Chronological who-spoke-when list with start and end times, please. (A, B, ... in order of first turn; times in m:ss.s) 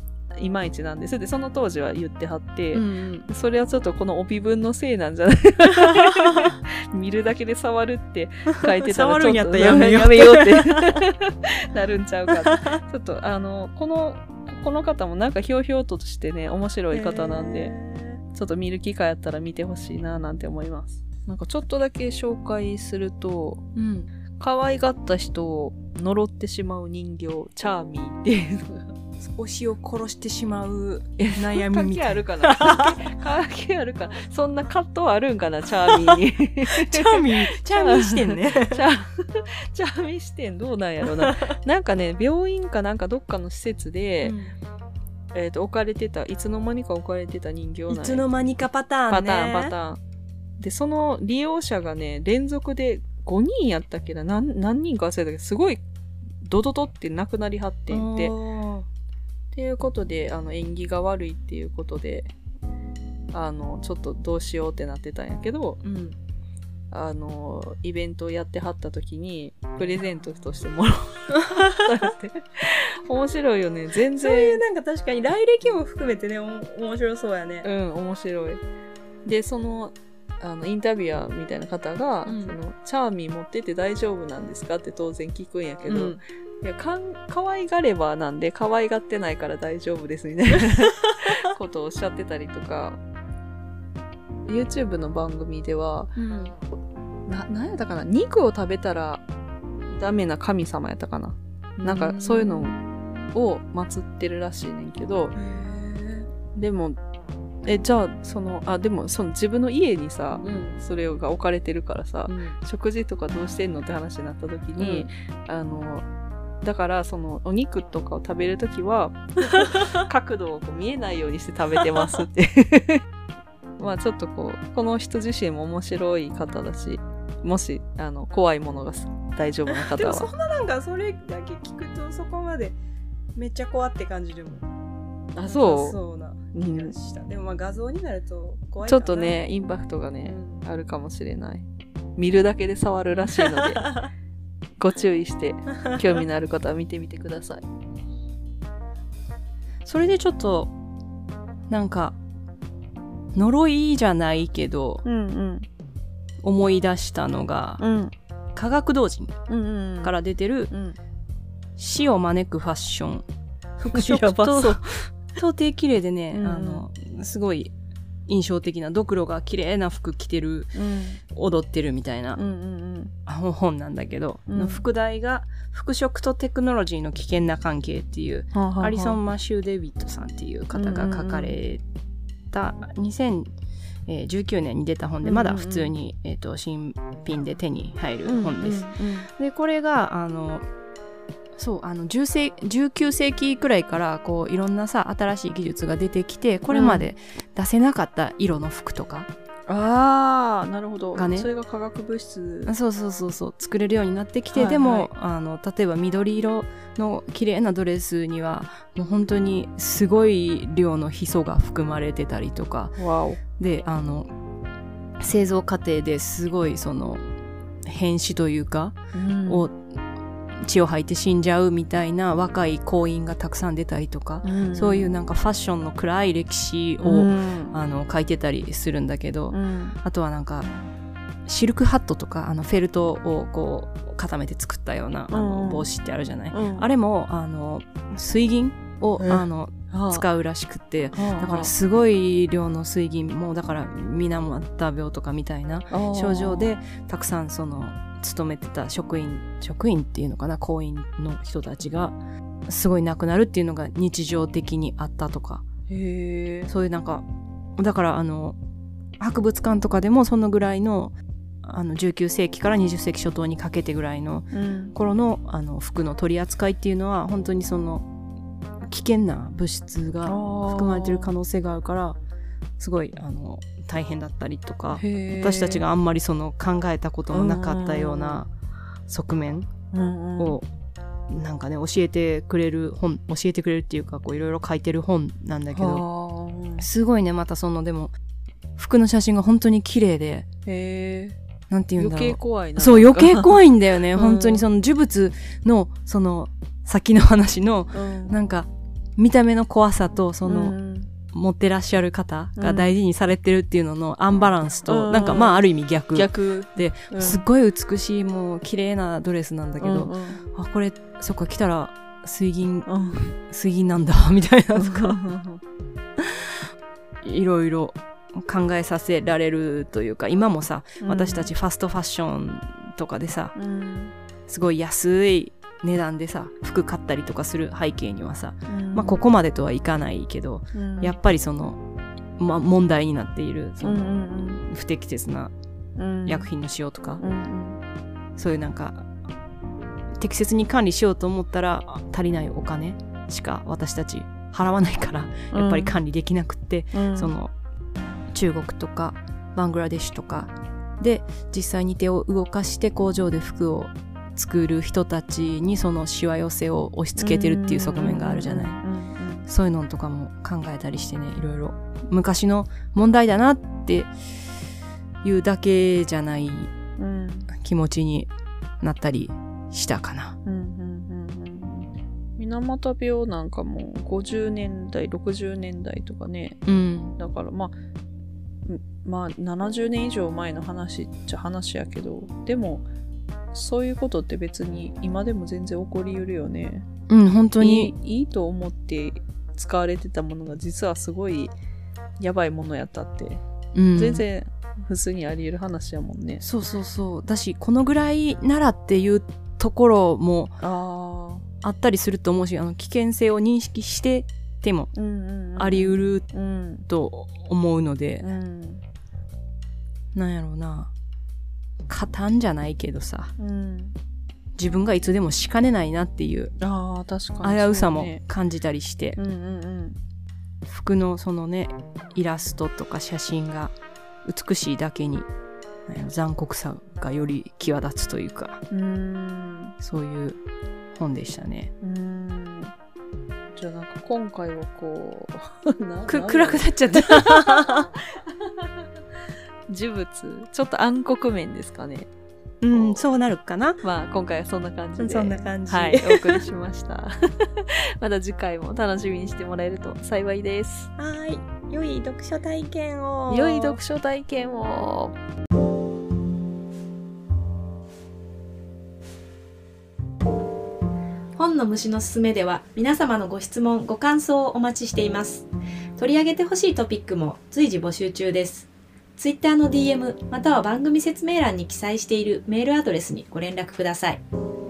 0:00.4-0:17.8 A
0:02.7-0:03.3 B
0:05.7-0:06.5 B
0:08.6-0:11.0 B
0:12.3-0:12.7 B
0:16.9-0:18.2 B
0:18.3-0:23.6 A
0:23.7-0:24.1 B
0:24.4-0:28.8 A
0:29.2-0:33.1 B
0:31.2-0:44.4 A
0:35.8-0:38.8 B
0:41.2-0:41.5 B
0:44.2-0:44.6 B
0:45.3-0:48.3 A
0:47.9-0:49.7 B
0:49.1-0:50.0 A
0:50.6-0:55.8 A
0:56.4-0:58.3 A
0:57.9-0:58.9 B
0:59.5-1:02.3 A
1:03.3-1:05.8 A
1:05.8-1:06.2 B
1:06.9-1:14.6 A
1:11.3-1:12.1 B
1:14.2-1:17.7 B
1:17.6-1:18.6 A
1:19.2-1:33.0 A
1:22.2-1:22.6 B
1:25.9-1:26.2 B
1:30.7-1:31.3 B
1:34.4-1:36.2 A
1:36.2-1:36.5 B
1:37.3-1:39.2 A
1:39.9-1:42.8 A
1:41.8-1:43.3 B
1:43.3-1:45.4 A
1:45.3-1:46.3 B
1:46.5-1:47.0 A
1:47.6-1:56.0 A
1:50.4-1:50.8 B
1:52.3-1:52.6 B
1:54.8-1:55.1 B
1:56.6-2:03.0 A
1:59.5-2:00.0 B
2:01.9-2:02.2 B
2:03.8-2:10.3 A
2:09.7-2:12.8 B
2:13.3-2:14.6 B
2:15.3-2:16.0 A
2:15.4-2:19.4 B
2:16.5-2:16.9 A
2:18.8-2:21.6 A
2:20.2-2:20.6 B
2:22.2-2:23.9 A
2:23.2-2:24.1 B
2:24.8-2:27.6 A
2:25.8-2:26.1 B
2:29.8-2:30.7 B
2:31.7-2:32.2 B
2:33.3-2:35.0 B
2:35.0-2:35.7 A
2:36.4-2:37.8 B
2:37.8-2:38.1 A
2:38.5-2:39.3 B
2:39.5-2:40.1 A
2:40.0-2:40.7 B
2:40.7-2:41.0 A
2:41.8-2:43.2 B
2:43.8-2:47.7 B
2:43.9-2:45.1 A
2:46.3-2:46.8 A
2:48.3-2:50.8 B
2:50.7-2:51.2 A
2:51.3-2:52.4 B
2:52.3-2:53.1 A
2:53.3-3:01.8 B
2:54.5-2:54.8 A
2:58.5-2:59.2 A
3:00.7-3:01.6 A
3:02.5-3:03.5 B
3:04.1-3:10.6 B
3:05.2-3:05.9 A
3:08.2-3:09.3 A
3:11.6-3:19.3 B
3:16.7-3:17.1 A
3:19.7-3:22.7 A
3:21.1-3:21.5 B
3:22.6-3:33.0 B
3:24.5-3:25.1 A
3:33.0-3:33.4 A
3:33.6-3:34.3 B
3:35.2-3:37.2 B
3:37.8-3:39.9 B
3:39.1-3:39.7 A
3:40.6-3:50.7 B
3:44.4-3:45.1 A
3:47.0-3:47.7 A
3:49.5-3:50.0 A
3:51.4-4:15.6 B
3:55.3-3:55.9 A
3:56.5-3:56.9 A
3:59.2-4:00.2 A
4:01.1-4:01.7 A
4:05.9-4:06.7 A
4:15.9-4:16.7 A
4:16.7-4:17.2 B
4:17.8-4:18.6 B
4:19.2-4:28.1 B
4:24.5-4:24.9 A
4:28.8-4:32.2 B
4:30.2-4:31.3 A
4:32.8-4:38.5 B
4:34.9-4:35.8 A
4:37.3-4:38.4 A
4:39.1-4:39.7 B
4:39.9-4:40.6 A
4:40.4-4:40.6 B
4:41.3-4:46.0 B
4:45.7-4:46.9 A
4:46.8-4:48.1 B
4:48.8-4:50.5 B
4:50.6-4:51.4 A
4:51.7-5:00.8 B
4:52.0-4:54.6 A
4:57.9-4:58.4 A
5:00.4-5:01.1 A
5:01.3-5:15.2 B
5:02.6-5:02.9 A
5:04.8-5:07.4 A
5:09.8-5:10.4 A
5:12.8-5:13.3 A
5:14.7-5:15.6 A
5:16.2-5:16.6 B
5:17.2-5:23.5 B
5:21.0-5:21.5 A
5:23.5-5:24.1 A
5:24.5-5:31.8 B
5:28.7-5:29.2 A
5:30.7-5:31.2 A
5:32.4-5:34.1 B
5:33.8-5:34.6 A
5:34.6-5:35.5 B
5:36.0-5:36.5 A
5:36.2-5:37.2 B
5:37.2-5:37.8 A
5:38.4-5:39.1 B
5:40.2-5:47.5 B
5:45.5-5:45.9 A
5:46.9-5:47.3 A
5:48.3-5:58.8 B
5:57.2-5:59.5 A
5:59.5-6:04.5 B
6:05.2-6:06.7 B
6:07.0-6:07.5 A
6:07.5-6:10.4 B
6:10.4-6:16.6 A
6:16.6-6:17.2 B
6:17.2-6:17.7 A
6:18.7-6:22.9 A
6:23.5-6:26.8 A
6:27.1-6:27.9 B
6:27.6-6:31.5 A
6:32.2-6:33.4 A
6:33.7-6:34.2 B
6:33.9-6:36.4 A
6:36.4-6:40.6 B
6:40.6-6:41.4 A
6:41.6-6:44.9 B
6:44.9-6:46.8 A
6:45.6-6:46.3 B
6:46.9-6:48.3 B
6:48.2-6:48.8 A
6:50.1-6:50.9 B
6:51.9-6:53.3 B
6:53.4-6:53.9 A
6:54.6-6:56.5 B
6:56.6-6:58.2 A
6:57.4-6:59.2 B
6:59.2-7:00.0 A
7:00.6-7:05.3 B
7:05.8-7:08.6 B
7:08.7-7:09.7 A
7:09.8-7:10.4 B
7:10.9-7:11.7 B
7:11.8-7:12.7 A
7:13.5-7:18.7 A
7:16.1-7:17.9 B
7:19.7-7:22.1 A
7:22.6-7:23.8 B
7:22.7-7:23.0 A
7:23.8-7:30.9 A
7:25.0-7:26.4 B
7:31.0-7:33.8 B
7:33.3-7:35.2 A
7:41.4-7:54.2 C